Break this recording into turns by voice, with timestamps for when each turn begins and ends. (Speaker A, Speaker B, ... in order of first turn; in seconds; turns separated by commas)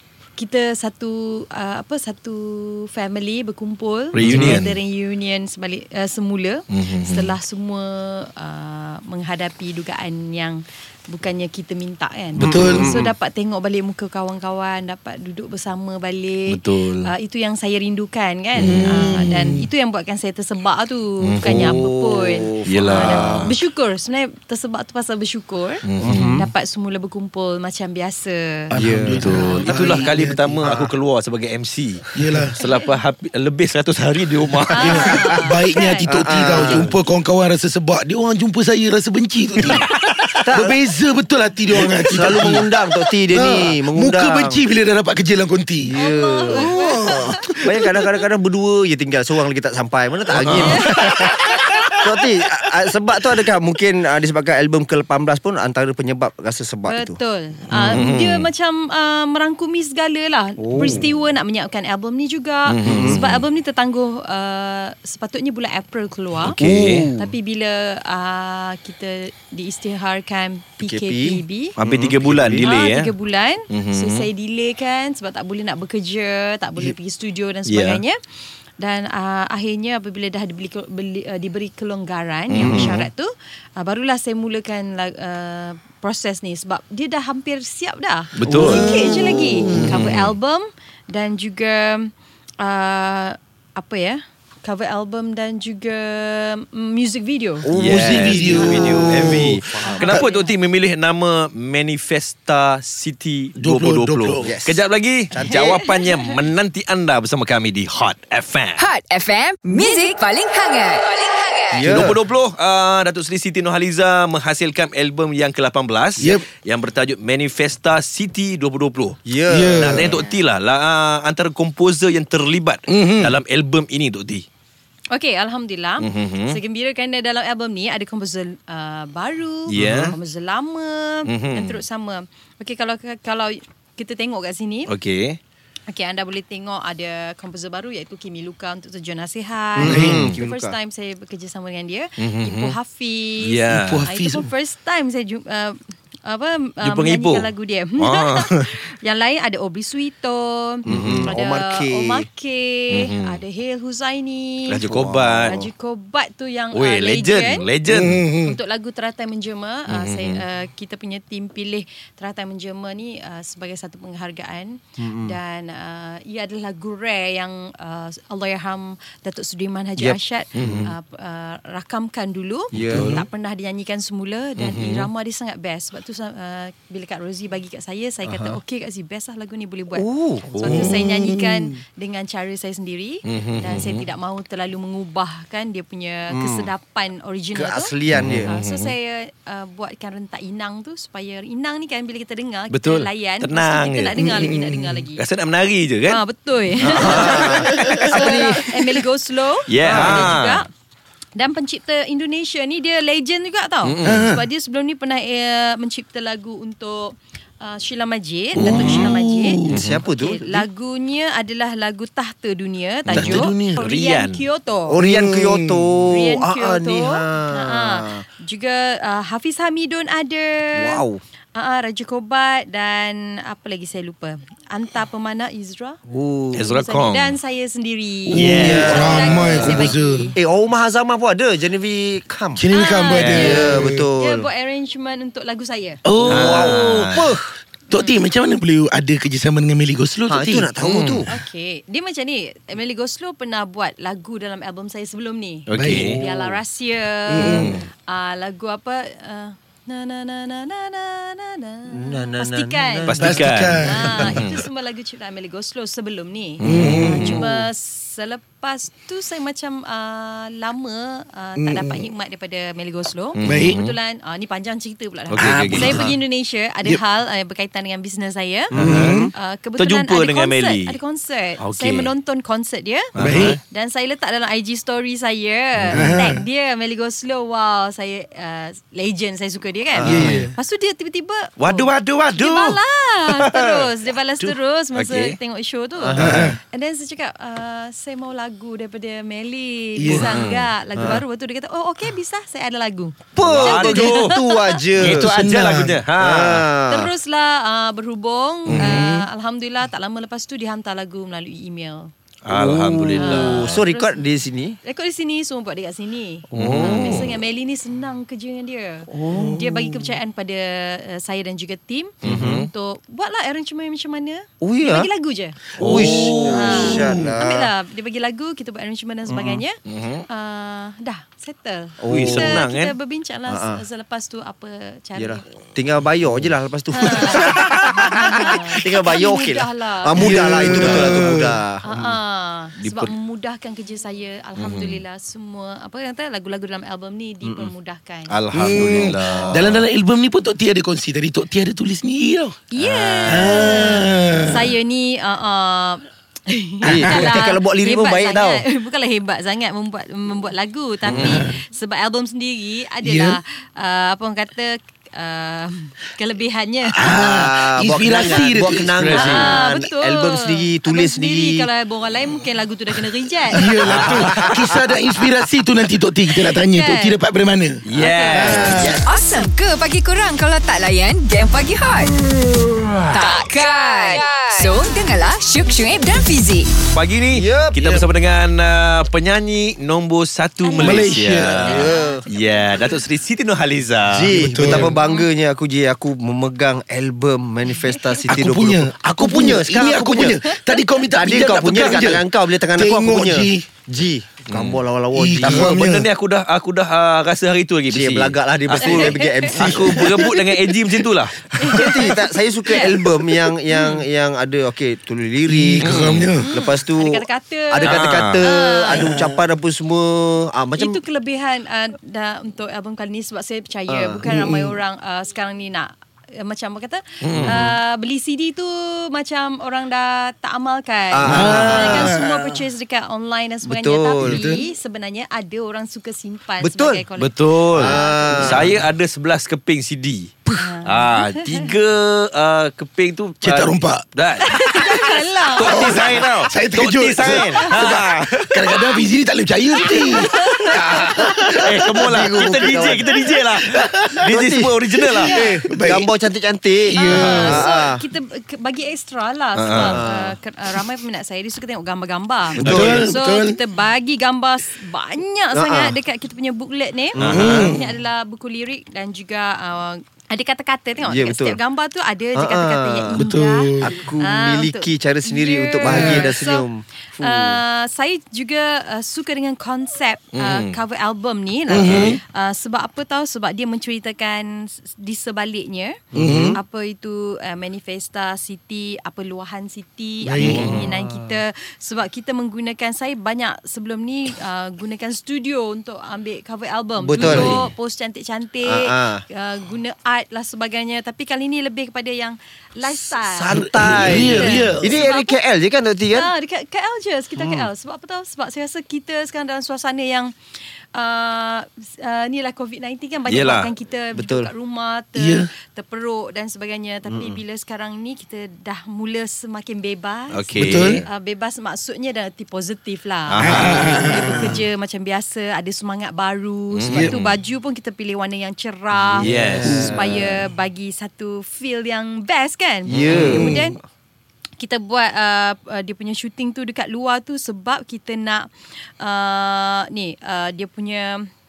Speaker A: 0.4-30.1, Speaker B: 4.1-4.8, Speaker C: 4.2-4.6, Speaker B: 6.7-7.3, Speaker C: 12.3-12.9, Speaker D: 12.4-13.1, Speaker B: 16.5-17.1, Speaker C: 18.6-19.7, Speaker B: 18.6-19.0, Speaker B: 21.2-21.8, Speaker D: 21.4-23.5, Speaker B: 22.6-23.5, Speaker B: 25.8-26.4, Speaker D: 26.0-26.5, Speaker C: 28.7-30.9, Speaker D: 28.7-29.4, Speaker B: 29.2-35.1, Speaker C: 32.1-32.5, Speaker A: 34.7-36.8, Speaker C: 34.8-46.0, Speaker D: 34.8-35.4, Speaker D: 36.1-36.9, Speaker D: 40.4-40.8, Speaker D: 41.7-44.6, Speaker D: 45.9-57.2, Speaker A: 45.9-47.6, Speaker C: 46.5-48.1, Speaker B: 50.4-50.9, Speaker A: 50.6-51.9, Speaker C: 51.0-51.8, Speaker A: 56.9-66.6, Speaker D: 57.7-58.0, Speaker B: 57.7-58.5, Speaker D: 60.6-61.1, Speaker B: 62.7-63.4, Speaker D: 62.8-63.2, Speaker B: 66.4-67.1, Speaker D: 66.5-67.3, Speaker A: 67.1-71.8, Speaker D: 70.8-72.7, Speaker B: 71.8-73.1, Speaker A: 72.5-78.2, Speaker B: 73.7-74.3, Speaker B: 77.7-78.0, Speaker A: 78.8-97.7, Speaker B: 82.5-83.0, Speaker D: 82.6-83.0, Speaker B: 88.3-89.0, Speaker D: 88.5-89.7, Speaker C: 88.8-89.8, Speaker B: 89.6-90.3, Speaker D: 97.6-100.3, Speaker B: 97.7-108.8, Speaker C: 97.9-99.6, Speaker A: 98.6-98.9, Speaker A: 99.8-100.5, Speaker C: 103.5-104.6, Speaker D: 104.4-104.8, Speaker D: 105.3-105.7, Speaker A: 105.4-106.3, Speaker E: 108.8-112.0, Speaker B: 111.7-119.2, Speaker D: 111.7-112.2, Speaker C: 116.2-116.5, Speaker D: 119.2-120.2, Speaker C: 119.5-120.2, Speaker B: 119.8-124.4, Speaker A: 120.0-120.4, Speaker C: 122.9-123.3, Speaker A: 125.1-134.9, Speaker B: 126.0-126.6, Speaker B: 129.7-130.1, Speaker C: 129.8-130.1, Speaker B: 131.3-131.8, Speaker B: 134.9-135.4, Speaker A: 135.9-154.8, Speaker D: 139.8-140.8, Speaker C: 139.8-140.3, Speaker B: 140.0-140.4, Speaker B: 142.2-142.7, Speaker B: 143.4-144.1, Speaker C: 143.7-144.5, Speaker B: 146.8-148.7, Speaker D: 150.8-152.3, Speaker B: 150.9-151.3, Speaker B: 152.9-153.4, Speaker B: 154.7-155.5, Speaker D: 154.9-155.7, Speaker A: 155.5-157.7, Speaker B: 156.7-158.2, Speaker C: 157.9-158.6, Speaker A: 158.2-187.9, Speaker B: 159.9-160.4, Speaker D: 165.0-165.4, Speaker D: 170.0-170.9, Speaker B: 170.5-170.9, Speaker D: 172.7-173.1, Speaker C: 172.9-173.2, Speaker B: 174.6-175.1, Speaker D: 178.2-178.6, Speaker D: 179.9-181.0, Speaker C: 180.6-181.7, Speaker B: 183.3-184.1, Speaker D: 186.3-186.7, Speaker D: 187.5-188.5, Speaker B: 188.1-188.9, Speaker A: 188.5-195.2, Speaker B: 192.7-194.4, Speaker C: 194.2-195.0, Speaker B: 195.2-196.2, Speaker A: 196.1-200.7, Speaker B: 196.8-198.3, Speaker D: 196.9-198.7, Speaker C: 197.8-198.5, Speaker B: 199.7-200.6, Speaker D: 199.8-200.4, Speaker A: 201.3-215.0, Speaker B: 203.8-204.3, Speaker C: 204.0-204.4, Speaker C: 208.5-209.8, Speaker D: 208.6-209.1, Speaker D: 209.7-210.7, Speaker B: 209.7-210.0, Speaker C: 213.1-213.8, Speaker B: 213.1-214.4, Speaker D: 214.9-218.2, Speaker C: 215.0-216.0, Speaker A: 216.1-221.0, Speaker D: 220.7-221.2, Speaker A: 221.5-226.0, Speaker D: 226.1-226.6, Speaker B: 226.5-227.3, Speaker A: 226.6-230.4, Speaker C: 228.3-230.3, Speaker B: 228.3-229.3, Speaker D: 228.6-232.6, Speaker C: 232.6-234.1, Speaker A: 232.7-236.0, Speaker B: 233.1-233.5, Speaker D: 233.3-234.5, Speaker C: 236.0-237.1, Speaker D: 236.2-237.5, Speaker B: 236.2-237.3, Speaker C: 237.9-240.8, Speaker A: 237.9-238.2, Speaker D: 240.3-241.3, Speaker B: 240.8-241.3, Speaker A: 241.3-268.7, Speaker B: 245.7-246.2, Speaker C: 245.7-246.2, Speaker D: 246.2-246.6, Speaker C: 247.3-247.8, Speaker B: 247.4-247.8, Speaker D: 251.9-253.4, Speaker B: 253.1-254.6, Speaker C: 253.2-254.6, Speaker B: 256.6-257.5, Speaker C: 256.6-257.4, Speaker C: 261.6-262.1, Speaker B: 263.3-264.0, Speaker C: 263.4-263.8, Speaker B: 265.3-266.1, Speaker C: 265.4-266.1, Speaker D: 268.7-269.3, Speaker B: 268.7-271.0, Speaker C: 268.8-269.3, Speaker A: 269.3-294.7, Speaker B: 271.6-272.1, Speaker B: 273.1-273.6, Speaker C: 273.2-273.6, Speaker C: 275.9-276.4, Speaker D: 279.9-280.5, Speaker C: 280.0-280.5, Speaker B: 280.1-280.5, Speaker B: 281.6-283.9, Speaker B: 284.4-285.4, Speaker D: 286.0-286.6, Speaker C: 286.2-286.6, Speaker C: 289.9-290.3, Speaker B: 290.1-290.7, Speaker D: 290.9-291.2, Speaker D: 293.4-295.3, Speaker B: 293.4-294.4, Speaker B: 295.0-296.6, Speaker C: 295.0-296.0, Speaker D: 296.2-297.1, Speaker A: 296.9-302.1, Speaker D: 298.7-299.2, Speaker C: 298.7-299.2, Speaker B: 302.4-303.8, Speaker D: 302.5-304.8, Speaker A: 303.2-304.2, Speaker A: 304.8-315.6, Speaker B: 306.5-307.3, Speaker D: 306.6-307.3, Speaker D: 309.1-309.6, Speaker C: 309.5-309.9, Speaker B: 312.2-312.7, Speaker D: 312.2-312.7, Speaker D: 314.6-315.1, Speaker D: 315.8-317.7, Speaker B: 315.8-317.1, Speaker A: 316.1-325.4, Speaker C: 316.7-317.3, Speaker D: 319.3-319.6, Speaker B: 319.9-320.2, Speaker D: 322.0-322.6, Speaker B: 322.1-322.9, Speaker D: 323.5-323.8, Speaker D: 325.1-332.2, Speaker A: 326.9-331.1, Speaker C: 330.2-331.6, Speaker B: 330.7-331.1, Speaker A: 331.8-338.4, Speaker B: 332.8-333.1, Speaker B: 334.6-335.0, Speaker D: 337.4-337.7, Speaker B: 338.3-339.8, Speaker C: 338.5-342.6, Speaker D: 338.9-339.6, Speaker A: 342.7-357.2, Speaker B: 342.8-343.8, Speaker C: 343.2-344.7, Speaker D: 346.8-348.6, Speaker C: 346.9-347.3, Speaker B: 351.1-351.5, Speaker C: 351.1-351.5, Speaker C: 353.0-353.4, Speaker C: 356.9-359.4, Speaker D: 357.0-361.7, Speaker B: 359.0-359.6, Speaker A: 359.1-363.9, Speaker C: 363.5-369.0, Speaker B: 363.8-364.7, Speaker D: 363.8-365.0, Speaker A: 366.6-367.2, Speaker B: 367.9-368.9, Speaker A: 367.9-368.9, Speaker E: 368.7-372.1, Speaker E: 373.1-376.7, Speaker B: 376.9-384.3, Speaker D: 377.3-377.8, Speaker A: 380.6-382.7, Speaker C: 380.8-381.7, Speaker D: 381.6-382.2, Speaker D: 384.1-390.4, Speaker C: 384.3-384.9, Speaker A: 384.7-385.2, Speaker A: 387.8-388.1, Speaker C: 388.3-393.7, Speaker D: 391.1-395.8, Speaker B: 394.5-394.8, Speaker C: 395.1-396.1, Speaker B: 395.4-401.5, Speaker D: 397.9-400.2, Speaker A: 398.8-400.2, Speaker A: 401.6-403.0, Speaker D: 401.7-405.9, Speaker C: 405.5-406.6, Speaker B: 405.8-406.3, Speaker A: 406.4-409.1, Speaker D: 406.5-411.0, Speaker B: 407.8-408.4, Speaker C: 408.9-409.4, Speaker A: 410.8-428.6, Speaker D: 413.9-414.3, Speaker C: 414.2-414.8, Speaker B: 417.2-417.7, Speaker D: 421.1-422.1, Speaker C: 421.2-422.6, Speaker D: 423.6-424.4, Speaker C: 424.2-424.6, Speaker D: 426.6-427.0, Speaker B: 427.2-439.0, Speaker D: 427.7-428.7, Speaker C: 428.3-428.8, Speaker A: 430.6-431.7, Speaker C: 433.4-434.0, Speaker A: 434.4-436.1, Speaker C: 435.6-442.3, Speaker A: 437.6-437.8, Speaker A: 439.9-441.3, Speaker B: 440.0-445.4, Speaker D: 441.1-441.3, Speaker D: 442.0-443.1, Speaker C: 443.7-444.3, Speaker D: 444.3-444.7, Speaker C: 445.0-446.1, Speaker D: 445.3-448.0, Speaker A: 445.3-445.6, Speaker C: 446.8-447.7, Speaker A: 446.9-466.6, Speaker B: 449.6-450.0, Speaker D: 449.7-450.4, Speaker C: 452.6-453.6, Speaker D: 452.6-453.1, Speaker D: 455.5-455.9, Speaker B: 457.2-457.7, Speaker C: 457.2-457.9, Speaker D: 461.0-461.6, Speaker D: 462.3-463.2, Speaker C: 463.1-464.0, Speaker D: 463.8-467.6, Speaker C: 465.9-466.3, Speaker A: 467.2-476.0, Speaker B: 470.3-470.8, Speaker C: 471.7-472.2, Speaker B: 471.8-472.2, Speaker D: 476.1-476.6, Speaker C: 476.1-476.6, Speaker A: 476.5-495.4, Speaker C: 480.2-480.8, Speaker B: 480.4-480.9, Speaker D: 487.0-487.6, Speaker C: 487.2-487.6, Speaker D: 488.6-489.2, Speaker D: 493.1-496.3, Speaker C: 493.5-495.0, Speaker A: 496.1-500.3, Speaker D: 497.4-497.7, Speaker A: 500.9-523.8, Speaker B: 503.3-503.7, Speaker D: 504.1-504.5, Speaker C: 505.1-505.5, Speaker D: 507.1-507.4, Speaker B: 510.3-511.0, Speaker C: 510.6-511.0, Speaker B: 513.3-514.4, Speaker C: 513.4-514.6, Speaker B: 516.7-517.4, Speaker D: 519.0-520.5, Speaker B: 519.2-519.9, Speaker C: 519.6-520.0, Speaker B: 522.9-523.5, Speaker D: 522.9-523.7, Speaker C: 523.3-523.6, Speaker A: 524.6-528.5, Speaker A: 529.0-531.3